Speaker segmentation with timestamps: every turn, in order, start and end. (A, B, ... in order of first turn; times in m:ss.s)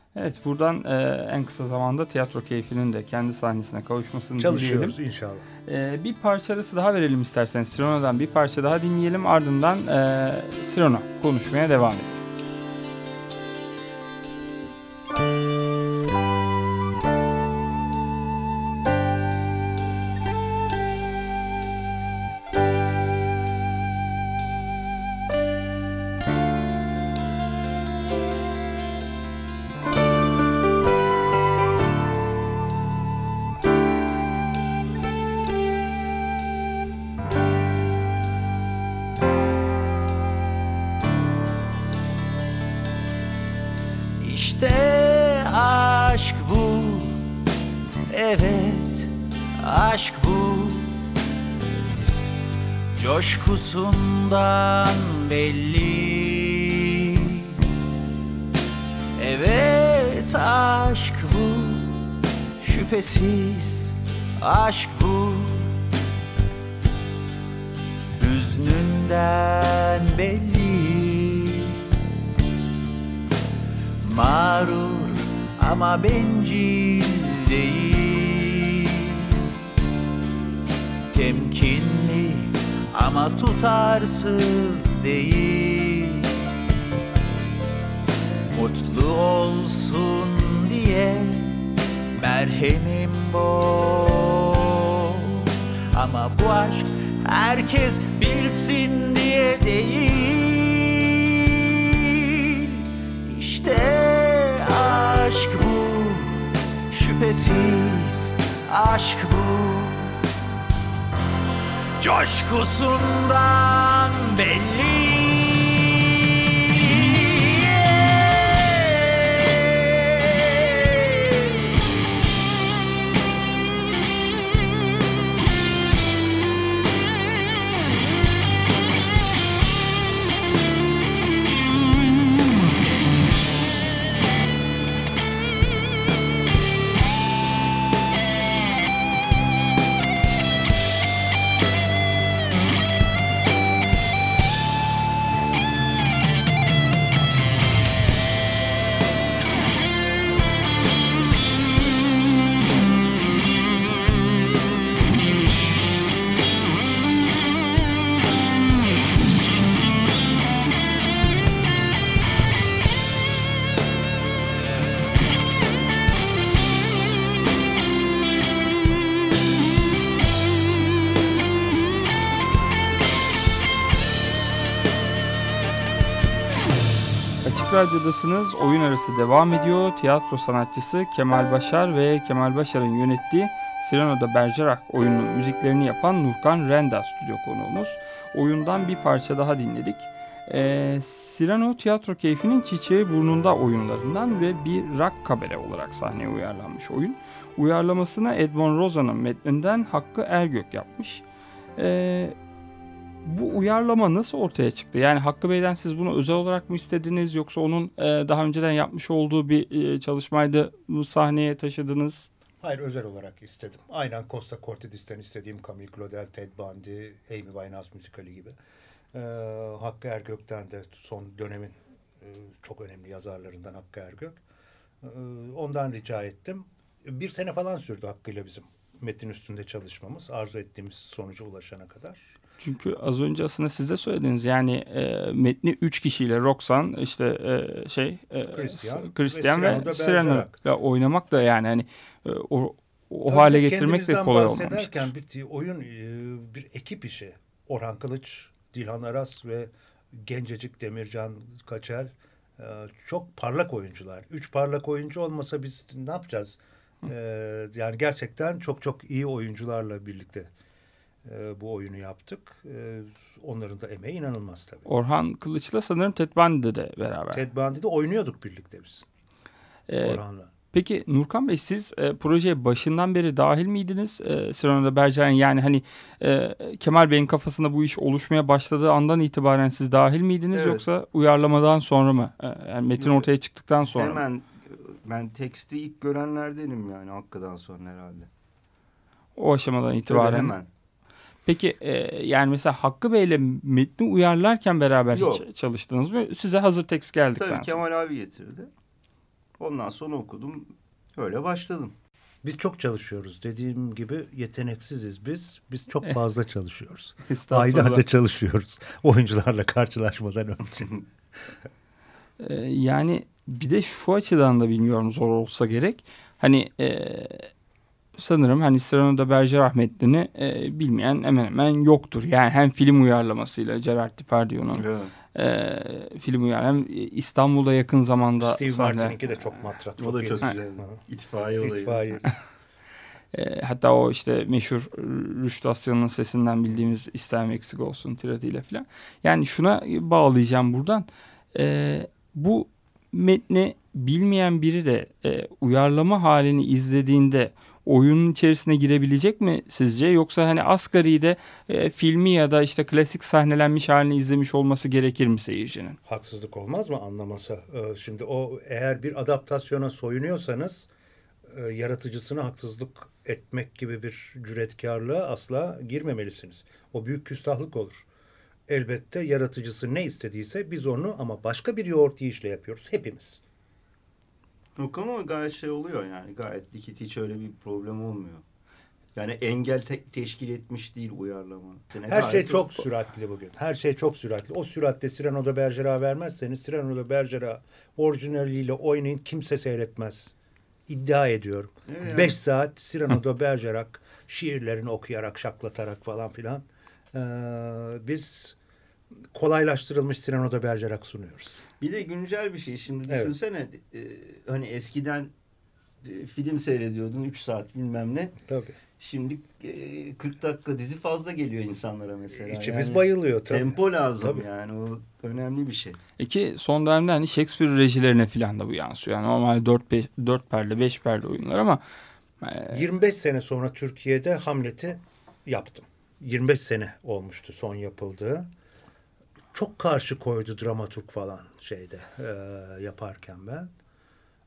0:00.1-0:05.0 A
0:04.4-0:05.5 B
0:05.7-0:12.2 A
0:44.2-0:47.2 C
0:48.1-0:51.0 C
0:53.0-0:57.6 C
0:59.2-1:02.0 C
1:02.6-1:05.8 C
1:08.2-1:11.8 C
1:14.0-1:19.5 C
1:21.1-1:26.4 C
1:28.5-1:50.2 C
1:52.0-2:01.5 C
2:57.4-3:21.2 A
3:21.8-3:22.3 A
3:23.2-3:32.3 A
3:32.6-3:38.6 B
3:39.1-3:44.4 B
3:45.0-3:52.3 B
3:52.6-4:05.1 A
3:58.5-4:00.6 B
4:03.2-4:20.5 B
4:21.2-4:24.9 B
4:24.8-4:27.4 A
4:27.3-4:29.0 B
4:29.9-4:30.2 A
4:30.0-4:30.5 B
4:30.7-4:44.2 A
4:40.5-4:40.8 D
4:43.0-4:43.3 D
4:43.8-4:48.3 D
4:49.4-4:50.5 A
4:50.1-4:50.7 D
4:51.5-4:57.8 A
4:55.1-4:55.4 D
4:57.4-4:58.7 D
4:59.6-5:01.9 D
5:02.4-5:11.0 B
5:07.2-5:08.0 A
5:12.4-5:17.5 A
5:18.2-5:29.2 A
5:24.8-5:25.1 D
5:28.4-5:31.0 B
5:30.0-5:32.0 D
5:31.6-5:32.3 B
5:33.3-5:56.0 A
5:56.0-6:00.9 B
6:01.5-6:08.0 B
6:08.7-6:13.4 B
6:14.8-6:18.4 D
6:19.2-6:22.8 D
6:22.1-6:30.3 B
6:30.9-6:38.6 B
6:31.9-6:32.4 D
6:39.3-6:41.6 B
6:41.8-6:45.3 D
6:43.1-6:43.3 B
6:46.0-6:48.4 D
6:48.5-6:48.8 B
6:49.0-6:56.0 D
6:52.3-6:54.5 B
6:56.2-7:01.8 A
7:02.4-7:02.8 A
7:02.7-7:08.5 B
7:09.5-7:13.7 B